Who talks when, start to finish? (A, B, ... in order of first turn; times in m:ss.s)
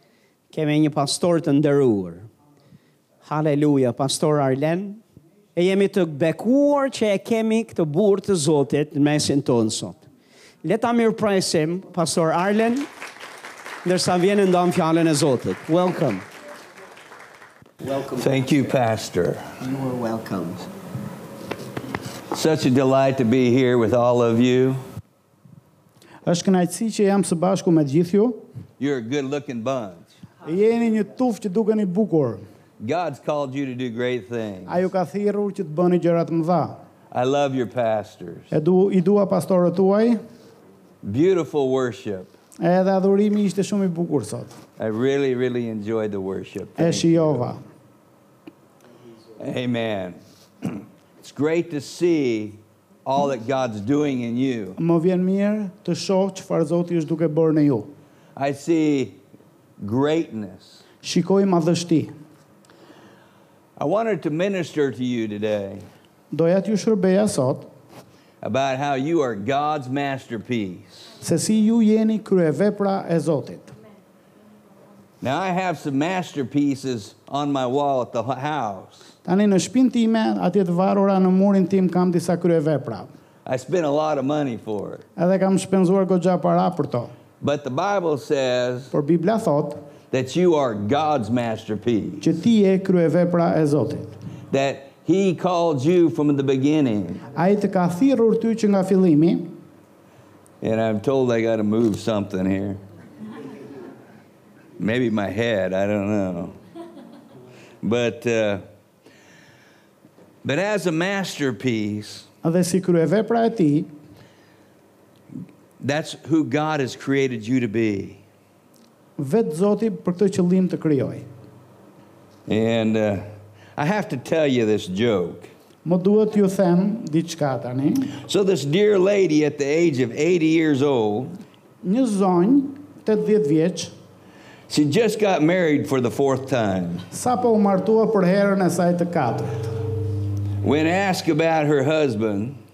0:00.5-0:02.3 A
0:03.2-0:05.0 A
0:05.6-0:10.0 A
0:10.6-0:12.9 A
0:13.8-0:16.2 A
0:17.8-0:18.2 A
0:18.1-0:19.5 B
0:19.6-0:20.6 A
0:22.3-0:24.8 B
0:26.2-0:28.4 C
0:28.8-0:30.1 B
0:30.4-0:32.4 C
0:32.8-0:34.8 B
0:34.7-0:36.8 C
0:37.1-0:38.5 B
0:38.5-0:40.2 C
0:41.0-0:42.3 B
0:42.6-0:44.5 C
0:44.8-0:47.5 B
0:46.8-0:47.6 C
0:49.4-0:54.8 B
0:54.8-0:57.9 C
0:58.4-0:59.2 B
0:59.8-1:00.8 B
1:01.0-1:02.1 C
1:03.8-1:05.8 B
1:06.3-1:07.7 C
1:08.4-1:11.1 B
1:11.2-1:13.7 C
1:15.2-1:19.1 B
1:19.2-1:23.1 C
1:23.4-1:25.0 B
1:25.2-1:27.1 C
1:27.4-1:28.9 B
1:28.9-1:29.8 C
1:30.1-1:32.2 B
1:32.2-1:34.2 C
1:34.5-1:37.2 B
1:37.3-1:39.5 C
1:40.6-1:42.8 B
1:44.8-1:46.6 B
1:47.8-1:48.6 B
1:50.4-1:52.3 B
1:52.4-1:53.9 C
1:55.8-1:58.2 B
1:59.2-2:01.2 C
2:02.5-2:05.5 B
2:05.8-2:08.1 C
2:08.1-2:11.4 B
2:11.8-2:13.9 C
2:14.7-2:17.0 B
2:17.1-2:19.6 C
2:20.6-2:22.6 B